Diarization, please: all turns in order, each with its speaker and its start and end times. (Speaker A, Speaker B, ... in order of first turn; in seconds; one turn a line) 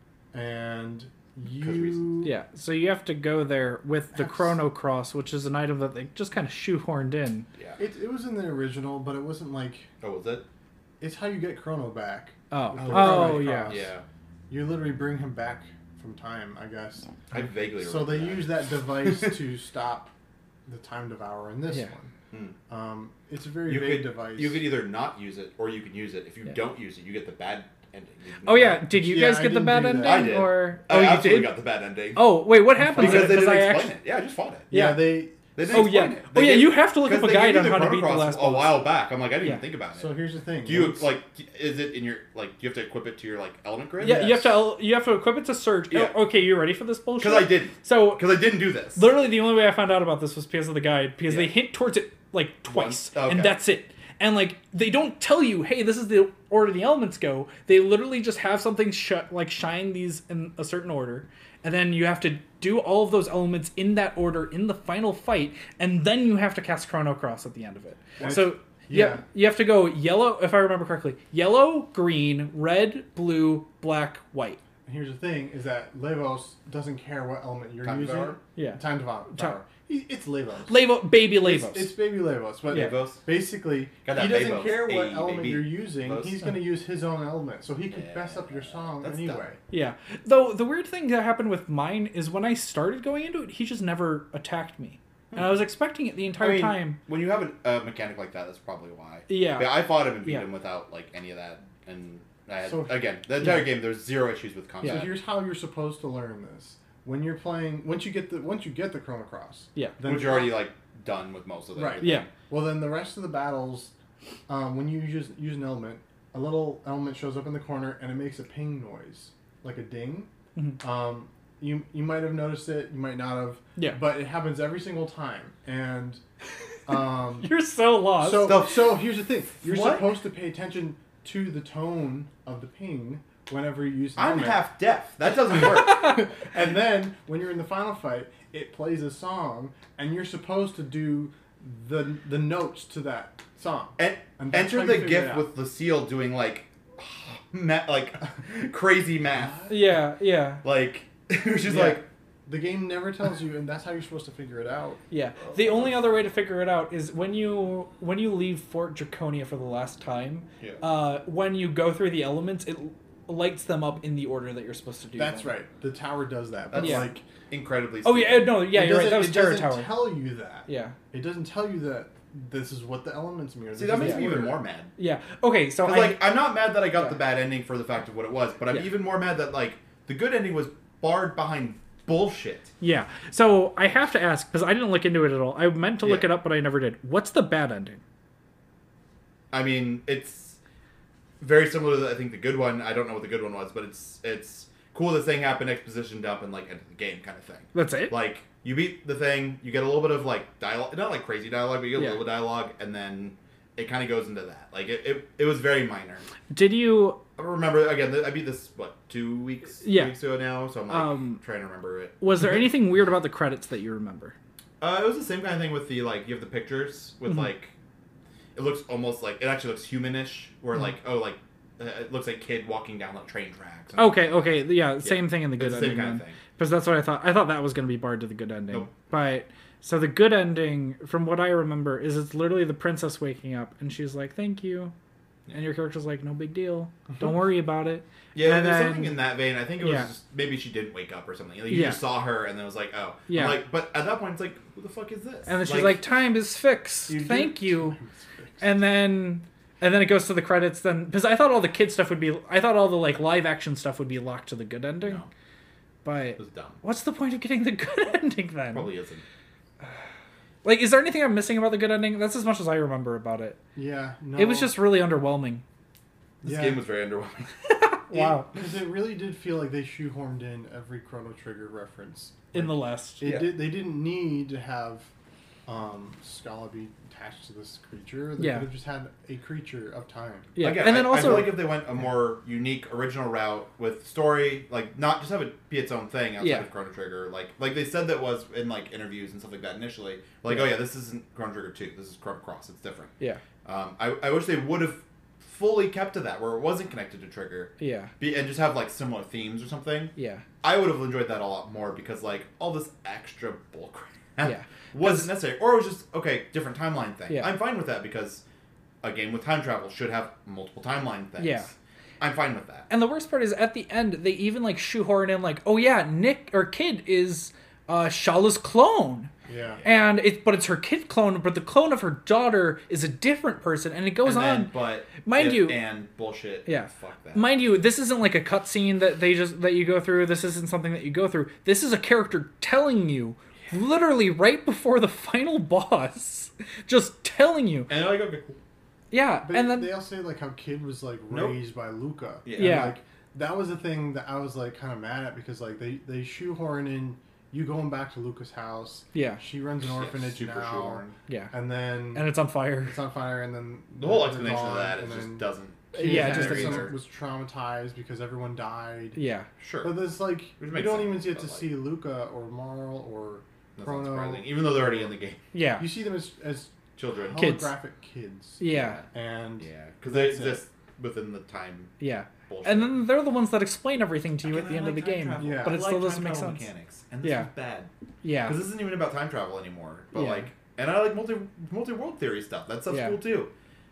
Speaker A: 0.3-2.3
Speaker B: 1.5-2.1
Speaker C: 2.2-7.5
Speaker A: 4.1-4.6
Speaker A: 7.8-9.9
Speaker B: 10.0-10.5
Speaker A: 11.0-13.9
Speaker C: 12.5-13.8
Speaker B: 12.7-14.1
Speaker A: 14.5-20.1
Speaker B: 17.3-19.4
Speaker A: 20.7-22.1
Speaker B: 22.3-22.6
Speaker A: 22.7-24.7
Speaker B: 23.7-28.9
Speaker C: 28.4-31.6
Speaker A: 28.9-30.4
Speaker B: 30.0-34.7
Speaker C: 32.2-33.9
Speaker A: 32.9-33.4
Speaker A: 34.7-35.9
Speaker C: 34.7-38.8
Speaker B: 35.5-40.1
Speaker A: 40.0-41.1
Speaker B: 40.6-44.5
Speaker C: 44.0-48.2
Speaker B: 45.9-46.2
Speaker B: 47.2-49.0
Speaker C: 49.0-74.6
Speaker B: 51.3-51.5
Speaker B: 52.7-53.6
Speaker A: 68.2-69.2
Speaker A: 74.9-89.6
Speaker B: 77.8-78.4
Speaker C: 78.6-79.6
Speaker C: 80.7-81.9
Speaker B: 82.7-83.2
Speaker C: 82.7-83.0
Speaker B: 84.0-86.4
Speaker B: 87.9-89.5
Speaker C: 89.7-97.0
Speaker B: 96.4-105.2
Speaker C: 99.3-100.5
Speaker A: 102.6-103.6
Speaker C: 104.8-105.1
Speaker A: 104.8-110.6
Speaker B: 110.0-112.3
Speaker A: 111.8-113.9
Speaker C: 112.0-112.3
Speaker A: 114.5-126.2
Speaker C: 120.6-120.8
Speaker A: 126.9-127.5
Speaker C: 127.4-128.7
Speaker A: 128.2-134.6
Speaker B: 128.4-129.0
Speaker B: 129.6-130.1
Speaker B: 134.2-136.3
Speaker A: 135.3-145.5
Speaker B: 144.0-149.7
Speaker A: 149.3-149.7
Speaker C: 149.7-150.6
Speaker B: 150.6-152.1
Speaker C: 151.7-152.0
Speaker A: 152.5-155.0
Speaker C: 155.1-165.5
Speaker A: 165.2-167.3
Speaker B: 166.7-168.6
Speaker C: 166.8-167.1
Speaker C: 168.0-170.0
Speaker A: 168.7-174.6
Speaker C: 170.7-171.0
Speaker B: 173.7-174.9
Speaker C: 173.9-174.2
Speaker C: 175.0-176.3
Speaker B: 175.8-182.7
Speaker C: 182.8-188.0
Speaker B: 186.0-186.3
Speaker B: 189.5-190.6
Speaker B: 191.4-206.3
Speaker C: 197.7-198.1
Speaker C: 202.0-202.2
Speaker C: 206.5-207.2
Speaker B: 207.4-212.5
Speaker C: 209.8-210.2
Speaker C: 210.9-211.4
Speaker C: 212.2-214.4
Speaker B: 214.8-217.7
Speaker B: 218.6-224.3
Speaker C: 224.0-234.9
Speaker B: 225.0-226.4
Speaker C: 235.5-239.2
Speaker B: 238.3-246.1
Speaker C: 239.8-240.1
Speaker C: 241.7-242.0
Speaker C: 243.3-243.6
Speaker C: 245.5-248.0
Speaker A: 247.1-248.7
Speaker B: 247.2-247.6
Speaker C: 248.6-255.2
Speaker B: 255.0-255.3
Speaker C: 256.0-258.9
Speaker B: 256.4-256.8
Speaker B: 258.7-259.2
Speaker C: 260.6-263.6
Speaker A: 263.8-264.8
Speaker C: 264.4-265.6
Speaker A: 266.4-266.8
Speaker B: 266.4-267.5
Speaker C: 267.7-268.5
Speaker A: 268.1-275.1
Speaker C: 272.5-273.3
Speaker B: 273.2-273.6
Speaker A: 275.7-280.5
Speaker C: 278.4-278.7
Speaker C: 280.6-281.6
Speaker B: 280.6-293.1
Speaker C: 286.4-286.7
Speaker C: 290.5-290.7
Speaker B: 293.6-308.4
Speaker C: 297.8-298.1
Speaker C: 300.2-300.4
Speaker C: 304.4-305.3
Speaker C: 307.3-307.6
Speaker B: 309.0-312.9
Speaker C: 311.4-311.7
Speaker C: 312.9-319.3
Speaker A: 319.5-319.8
Speaker C: 319.8-325.8
Speaker B: 324.2-327.5
Speaker C: 326.7-337.9
Speaker B: 337.9-338.6
Speaker C: 339.1-339.9
Speaker A: 339.4-352.3
Speaker B: 341.3-341.6
Speaker B: 342.4-342.9
Speaker C: 342.6-343.0
Speaker C: 349.1-349.4
Speaker B: 349.8-351.2
Speaker C: 351.3-351.5
Speaker C: 352.1-353.0
Speaker A: 352.9-359.2
Speaker B: 354.0-356.9
Speaker C: 355.9-356.9
Speaker C: 359.1-359.5
Speaker B: 359.6-359.9
Speaker A: 359.8-365.1
Speaker B: 360.6-361.7
Speaker B: 363.8-365.4
Speaker C: 365.5-365.9
Speaker A: 365.8-370.6
Speaker B: 367.0-367.5
Speaker C: 367.4-367.7
Speaker C: 368.6-369.0
Speaker B: 368.7-369.1
Speaker B: 369.6-371.9
Speaker C: 372.0-376.7
Speaker B: 372.5-373.0
Speaker B: 374.4-377.9
Speaker A: 375.4-375.8
Speaker C: 377.2-377.5
Speaker C: 378.2-378.6
Speaker B: 378.4-383.5
Speaker C: 380.1-380.5
Speaker C: 382.9-383.2